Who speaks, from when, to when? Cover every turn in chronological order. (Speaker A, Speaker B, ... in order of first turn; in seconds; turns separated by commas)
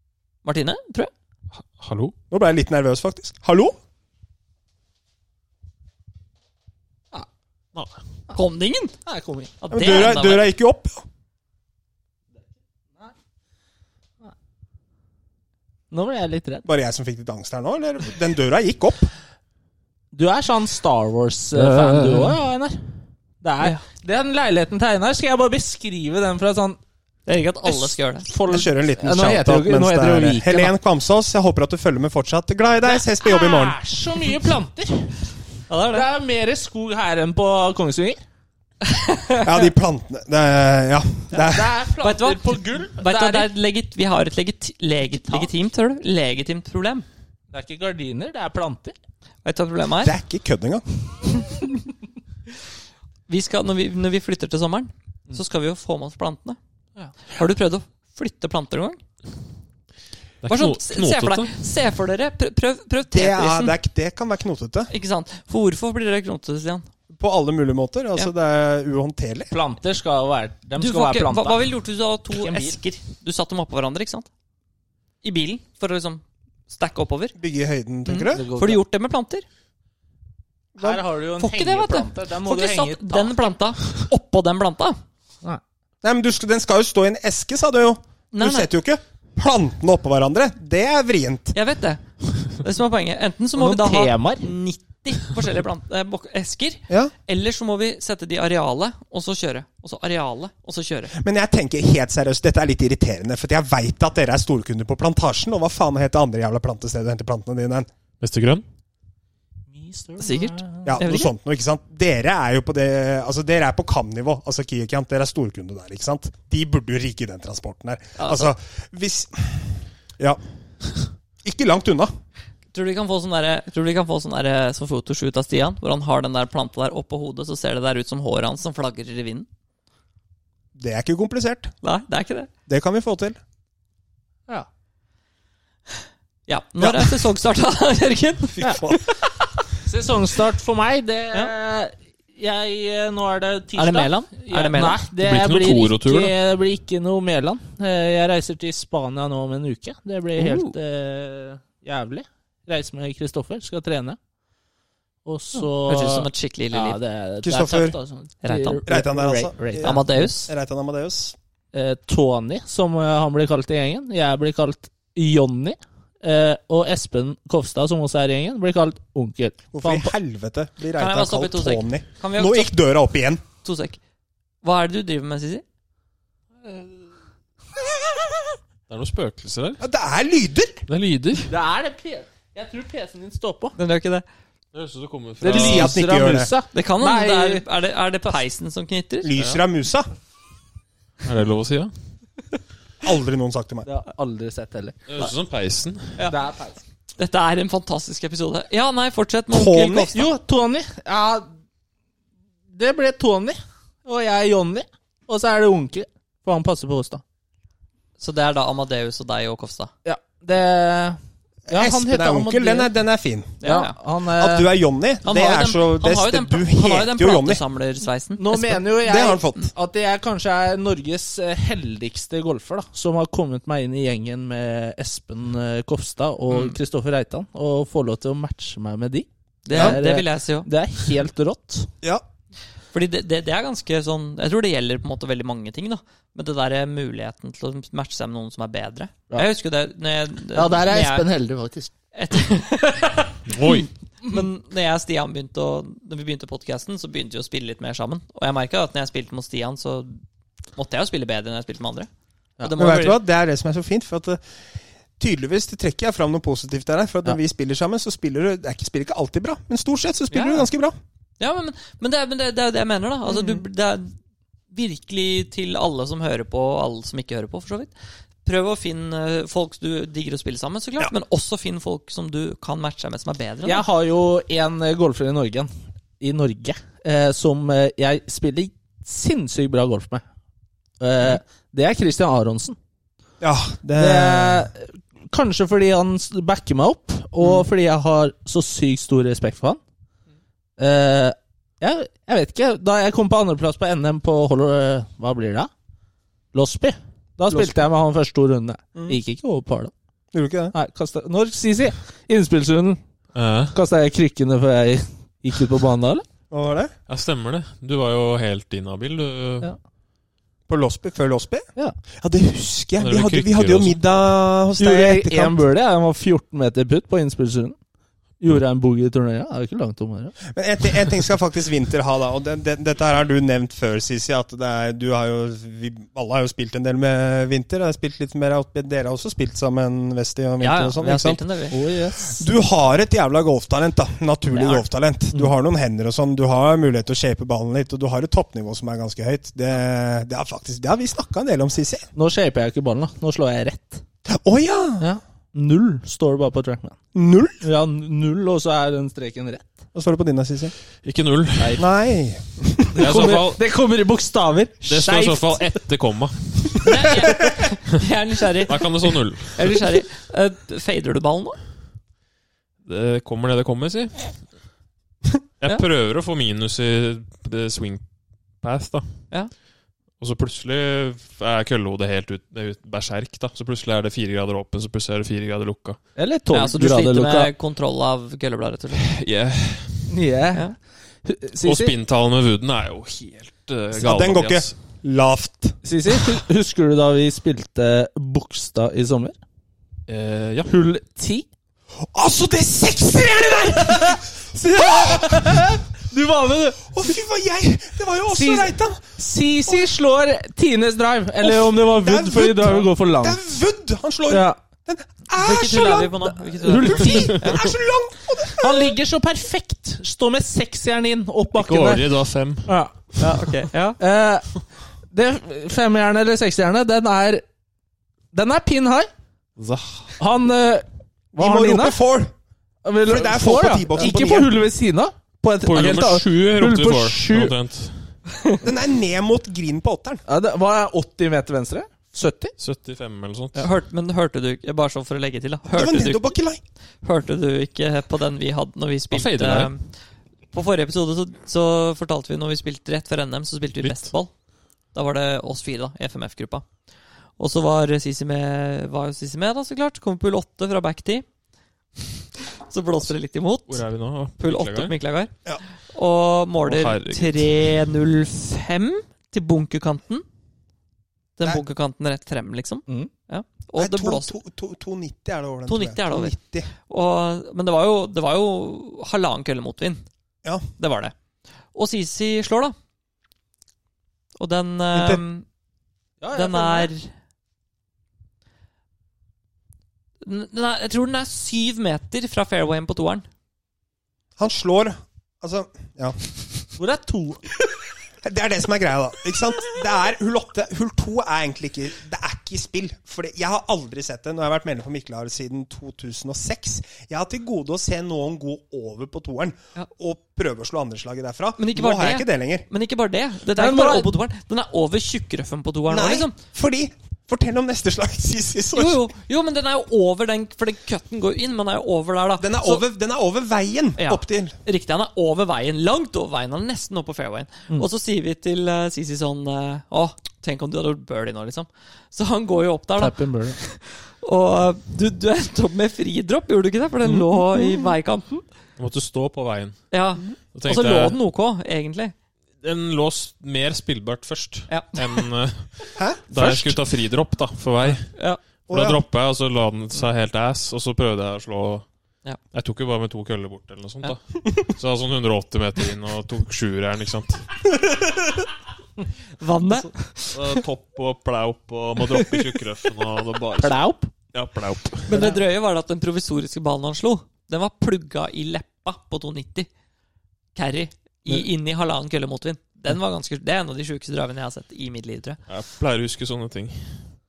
Speaker A: 0.4-1.1, Speaker B: 1.6-2.1, Speaker C: 2.3-3.8, Speaker A: 8.3-8.9, Speaker D: 9.1-9.5, Speaker A: 9.6-10.4, Speaker C: 9.7-11.0, Speaker D: 15.9-16.6, Speaker C: 16.6-19.1, Speaker D: 20.1-22.9, Speaker B: 21.5-22.4, Speaker D: 23.4-26.8, Speaker A: 27.2-28.3, Speaker D: 27.6-30.7, Speaker C: 28.4-33.8, Speaker D: 33.2-35.1, Speaker A: 35.7-36.1, Speaker D: 35.9-38.2, Speaker A: 38.8-39.6, Speaker C: 39.4-41.8, Speaker D: 41.4-43.5, Speaker A: 42.0-47.0, Speaker D: 45.2-45.5, Speaker D: 47.5-48.9, Speaker A: 49.4-50.1, Speaker C: 50.0-51.2, Speaker A: 53.3-56.6, Speaker A: 57.2-59.0, Speaker B: 60.4-61.6, Speaker A: 60.5-63.8, Speaker C: 63.1-64.9, Speaker A: 64.9-66.9, Speaker C: 67.1-69.5, Speaker D: 69.5-71.7, Speaker A: 70.8-74.3, Speaker D: 72.3-72.8, Speaker A: 75.2-77.3, Speaker C: 77.4-78.5, Speaker A: 78.0-79.4, Speaker D: 78.3-78.8, Speaker D: 80.8-83.3, Speaker A: 81.4-85.0, Speaker C: 86.0-91.5, Speaker A: 88.3-88.7, Speaker A: 91.5-101.1, Speaker D: 93.5-94.5, Speaker C: 101.1-107.9, Speaker B: 108.2-108.6, Speaker D: 109.7-111.0, Speaker A: 110.2-111.3, Speaker C: 110.8-120.4, Speaker A: 118.2-118.5, Speaker C: 121.4-122.1, Speaker A: 122.7-129.5, Speaker C: 130.7-131.7, Speaker A: 131.8-132.5, Speaker C: 132.7-133.4, Speaker A: 136.5-139.5, Speaker C: 136.8-137.2, Speaker C: 138.6-139.1, Speaker D: 139.8-154.2, Speaker A: 143.8-145.0, Speaker B: 145.2-146.3, Speaker A: 150.4-150.7, Speaker D: 155.2-160.3, Speaker A: 155.5-157.0, Speaker C: 157.4-158.0, Speaker A: 158.4-158.8, Speaker C: 158.8-161.3, Speaker A: 159.8-160.5, Speaker D: 161.7-170.1, Speaker C: 169.7-173.4, Speaker A: 171.0-172.7, Speaker A: 173.6-174.0, Speaker A: 174.6-175.6, Speaker B: 178.9-179.8, Speaker C: 179.8-180.8, Speaker B: 180.9-181.5, Speaker D: 181.5-183.8, Speaker A: 183.8-184.2, Speaker B: 184.7-185.9, Speaker D: 185.4-187.7, Speaker C: 185.5-186.5, Speaker A: 186.7-189.3, Speaker C: 189.2-190.1, Speaker B: 191.2-191.9, Speaker C: 193.0-193.9, Speaker D: 193.8-195.0, Speaker B: 195.1-196.2, Speaker D: 196.3-196.8, Speaker A: 197.2-200.3, Speaker C: 199.5-200.3, Speaker D: 200.1-201.5, Speaker D: 202.7-207.2, Speaker A: 208.2-209.9, Speaker D: 210.0-212.9, Speaker C: 211.7-213.6, Speaker A: 213.6-214.0, Speaker D: 213.6-214.7, Speaker C: 214.2-217.6, Speaker A: 215.2-218.9, Speaker D: 218.4-231.9, Speaker C: 219.0-219.7, Speaker A: 226.5-226.8, Speaker A: 229.6-230.7, Speaker C: 229.7-230.0, Speaker A: 232.9-241.3, Speaker D: 240.5-241.9, Speaker A: 242.1-250.2, Speaker B: 243.5-243.9, Speaker A: 250.7-252.1, Speaker A: 252.6-253.2, Speaker C: 252.8-254.4, Speaker C: 255.2-260.9, Speaker A: 260.3-260.7, Speaker A: 261.4-264.1, Speaker C: 263.3-263.6, Speaker A: 264.7-267.9, Speaker A: 268.4-273.9, Speaker D: 273.6-280.2, Speaker D: 281.0-282.8, Speaker C: 283.4-284.7, Speaker D: 283.9-289.8, Speaker D: 290.8-295.7, Speaker D: 296.5-299.9, Speaker C: 297.5-297.8, Speaker C: 300.3-300.7, Speaker D: 300.7-303.0, Speaker B: 303.3-303.7, Speaker D: 303.7-306.2, Speaker C: 306.5-306.9, Speaker B: 307.1-309.7, Speaker C: 310.7-311.7, Speaker C: 312.2-315.6, Speaker B: 313.0-314.0, Speaker D: 314.8-317.8, Speaker D: 318.4-320.4, Speaker C: 320.5-331.4, Speaker A: 330.6-331.8, Speaker D: 331.7-332.4, Speaker C: 332.3-342.1, Speaker A: 334.5-334.8, Speaker D: 342.1-344.0, Speaker C: 344.2-345.1, Speaker D: 345.0-347.0, Speaker C: 347.1-347.6, Speaker D: 347.6-349.7, Speaker C: 349.9-350.7, Speaker B: 351.0-351.8, Speaker D: 351.6-351.9, Speaker C: 351.8-353.1, Speaker D: 352.9-355.8, Speaker B: 353.0-353.6, Speaker B: 354.8-357.0, Speaker A: 356.8-358.9, Speaker B: 358.7-359.8, Speaker A: 359.5-361.6, Speaker B: 362.8-364.4, Speaker B: 365.6-368.0, Speaker B: 368.6-369.2, Speaker B: 370.2-376.0, Speaker D: 376.1-377.5, Speaker A: 376.5-379.1, Speaker B: 379.0-380.1, Speaker D: 380.1-381.9, Speaker B: 381.6-384.7, Speaker C: 383.9-385.8, Speaker D: 385.8-389.4, Speaker B: 390.1-390.7, Speaker D: 390.7-391.4, Speaker C: 392.1-395.8, Speaker D: 393.9-394.2, Speaker D: 394.8-396.9, Speaker C: 396.9-399.9, Speaker D: 398.3-403.4, Speaker C: 401.4-406.1, Speaker D: 404.3-404.6, Speaker A: 405.3-407.7, Speaker D: 406.5-407.5, Speaker C: 406.8-408.9, Speaker D: 408.5-412.1, Speaker B: 411.5-412.8, Speaker D: 412.6-413.0, Speaker A: 413.2-414.0, Speaker D: 414.0-417.4, Speaker D: 418.3-419.1, Speaker B: 419.6-420.1, Speaker D: 420.2-422.0, Speaker C: 421.4-422.3, Speaker D: 422.8-427.5, Speaker C: 423.0-424.6, Speaker B: 425.6-428.2, Speaker C: 428.6-430.2, Speaker D: 430.3-432.5, Speaker B: 432.6-433.7, Speaker A: 433.6-436.4, Speaker C: 435.7-436.6, Speaker A: 437.0-439.9, Speaker B: 439.1-439.7, Speaker A: 440.5-444.3, Speaker B: 443.8-444.1, Speaker A: 444.9-446.6, Speaker A: 447.4-451.2, Speaker A: 452.7-453.8, Speaker B: 453.7-454.9, Speaker A: 454.4-460.2, Speaker B: 456.6-457.8, Speaker A: 461.4-464.3, Speaker C: 463.8-466.7, Speaker A: 465.7-470.0, Speaker A: 470.8-471.1, Speaker A: 471.7-472.7, Speaker A: 474.4-475.4, Speaker C: 474.9-475.2, Speaker D: 476.2-476.9, Speaker A: 476.3-477.1, Speaker A: 480.2-483.3, Speaker C: 484.4-486.7, Speaker D: 486.8-487.4, Speaker C: 488.2-502.6, Speaker A: 501.6-506.4, Speaker D: 503.6-504.1, Speaker C: 505.9-509.1, Speaker A: 508.7-512.8, Speaker C: 512.4-514.6, Speaker A: 514.0-528.5, Speaker D: 523.0-523.6, Speaker B: 528.8-529.9, Speaker A: 529.9-532.1, Speaker B: 530.5-531.1, Speaker B: 532.6-538.1, Speaker A: 534.7-535.3, Speaker C: 536.0-536.2, Speaker A: 538.1-538.4, Speaker B: 538.7-541.9, Speaker C: 538.7-539.0, Speaker B: 542.5-547.6, Speaker C: 547.8-548.4, Speaker A: 549.4-550.6, Speaker B: 550.3-553.8, Speaker D: 553.6-554.1, Speaker B: 554.3-555.2, Speaker A: 555.1-559.7, Speaker D: 555.1-555.4, Speaker A: 560.5-565.4, Speaker B: 565.5-567.0